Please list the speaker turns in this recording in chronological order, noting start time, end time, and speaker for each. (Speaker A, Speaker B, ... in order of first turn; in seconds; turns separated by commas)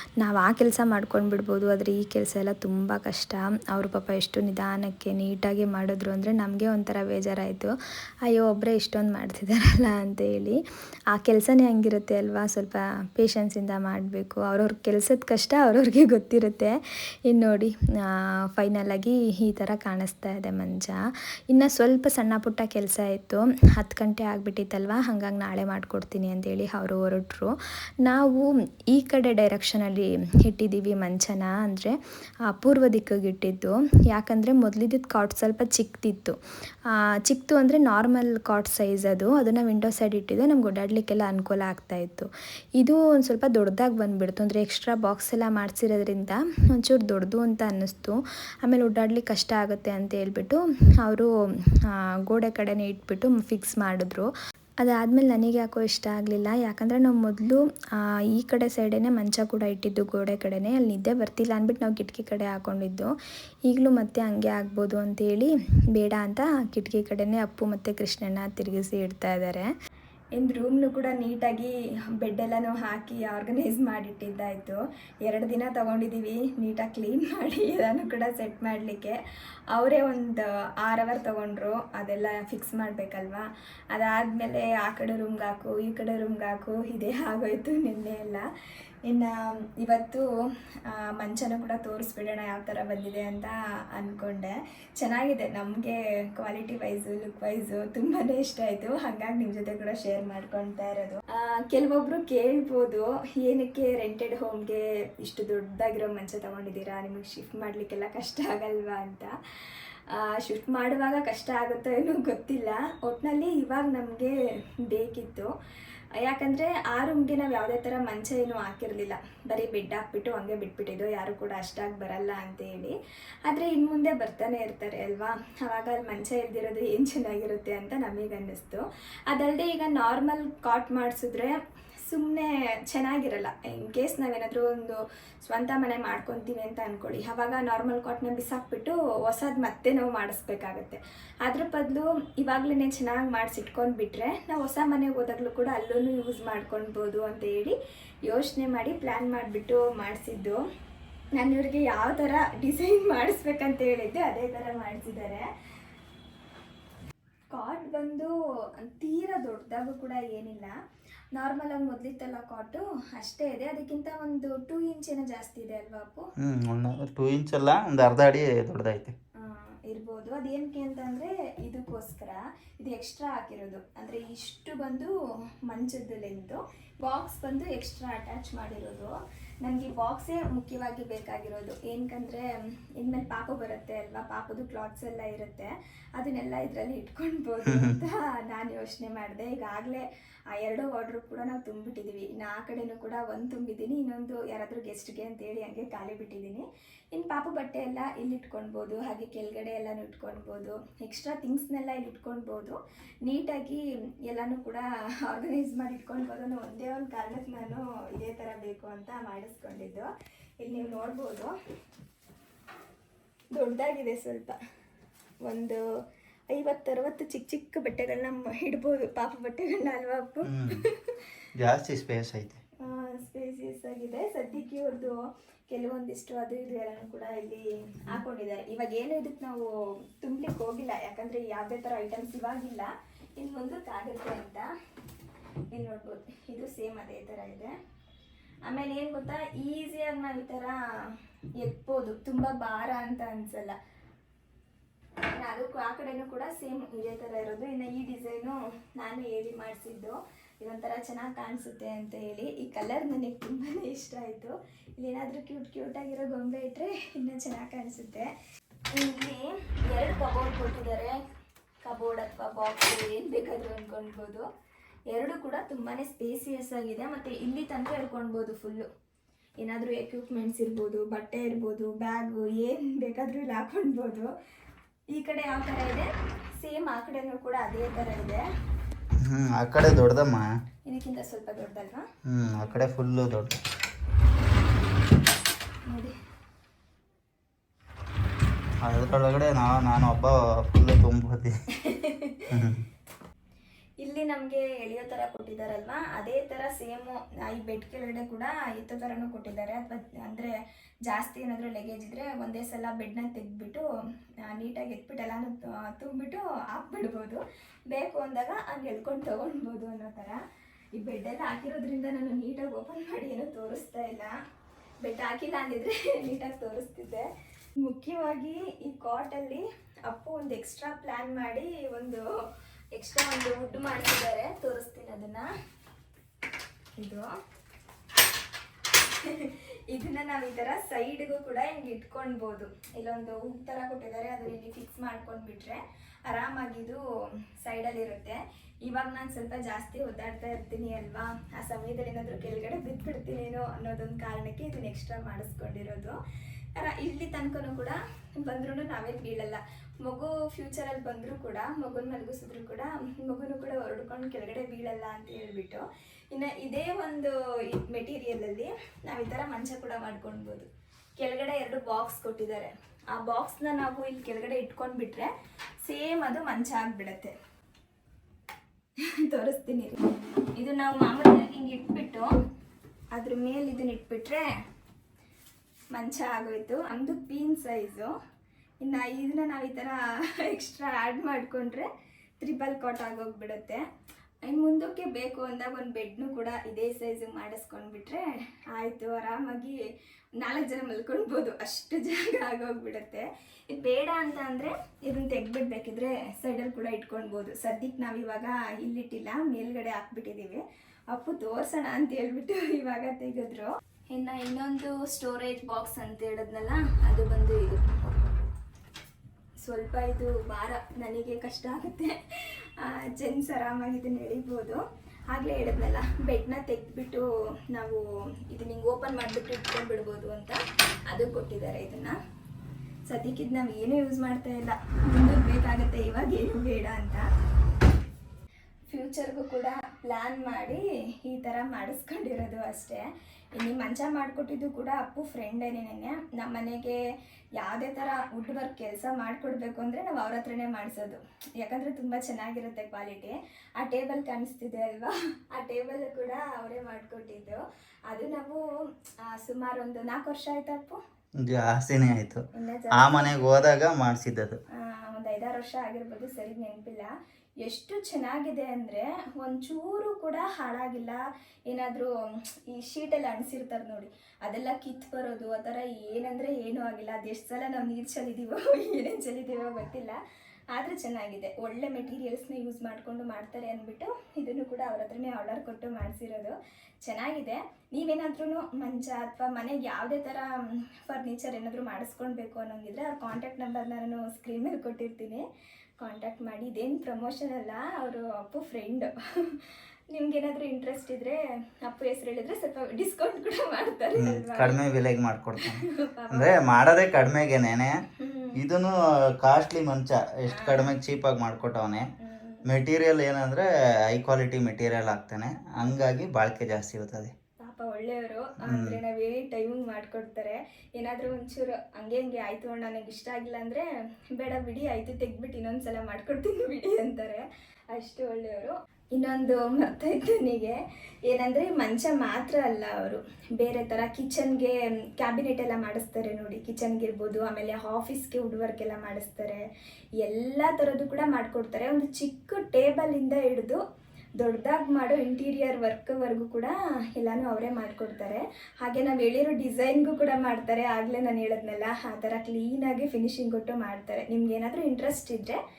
Speaker A: 0.2-32.0, Speaker A: 32.5-51.3, Speaker A: 51.9-63.1, Speaker A: 63.6-69.7, Speaker B: 70.3-79.2, Speaker B: 79.7-88.4, Speaker B: 89.1-90.2, Speaker B: 90.9-109.3, Speaker B: 110.1-114.3, Speaker B: 114.9-115.5, Speaker B: 116.2-122.9, Speaker B: 123.5-147.7, Speaker B: 148.3-150.6, Speaker B: 151.4-155.4, Speaker B: 157.5-160.7, Speaker B: 161.3-166.2, Speaker C: 166.4-169.1, Speaker B: 169.4-175.1, Speaker B: 175.7-182.5, Speaker B: 183.0-210.1, Speaker C: 187.7-187.9, Speaker B: 210.6-211.5, Speaker B: 213.5-214.6, Speaker B: 215.4-215.8, Speaker B: 216.5-221.2, Speaker C: 220.4-220.8, Speaker C: 221.6-222.6, Speaker B: 222.8-234.7, Speaker B: 235.7-237.7, Speaker B: 238.7-240.8, Speaker B: 241.6-243.8, Speaker B: 245.3-258.3, Speaker B: 258.9-261.2, Speaker B: 261.8-264.4, Speaker B: 265.1-268.9, Speaker B: 269.6-274.3, Speaker B: 275.1-278.4, Speaker C: 279.2-280.5, Speaker B: 280.9-282.1, Speaker C: 282.3-283.6, Speaker B: 285.9-286.1, Speaker C: 288.8-291.6, Speaker B: 291.7-292.5, Speaker C: 292.5-292.8, Speaker B: 294.0-300.5, Speaker B: 301.1-303.9, Speaker B: 304.4-310.4, Speaker B: 310.9-314.3, Speaker B: 315.0-317.3, Speaker B: 317.8-322.3, Speaker B: 322.9-325.5, Speaker B: 327.0-327.4, Speaker B: 329.0-337.0, Speaker B: 337.6-346.1, Speaker B: 346.8-365.3, Speaker B: 365.8-367.3, Speaker B: 369.0-370.0, Speaker B: 370.6-372.3, Speaker B: 373.1-374.5, Speaker B: 375.9-378.1, Speaker B: 378.8-381.9, Speaker B: 382.4-383.8, Speaker B: 384.4-388.2, Speaker B: 388.7-389.9, Speaker B: 390.4-407.9, Speaker B: 409.6-412.2, Speaker B: 412.8-422.1, Speaker B: 423.1-427.2, Speaker B: 428.9-433.0, Speaker B: 433.6-437.0, Speaker B: 437.6-448.6, Speaker B: 449.2-451.0, Speaker C: 451.4-452.4, Speaker B: 452.5-453.4, Speaker C: 452.9-454.6, Speaker B: 454.7-457.1, Speaker B: 457.6-470.2, Speaker B: 470.7-480.5, Speaker B: 481.1-485.4, Speaker B: 486.0-494.8, Speaker C: 494.2-498.0, Speaker B: 495.6-496.6, Speaker B: 498.2-498.6, Speaker C: 498.6-502.1, Speaker B: 500.5-500.9, Speaker B: 502.2-502.6, Speaker C: 502.7-507.3, Speaker B: 507.6-513.8, Speaker C: 508.7-509.0, Speaker B: 514.4-529.6, Speaker B: 530.2-533.8, Speaker B: 534.4-545.6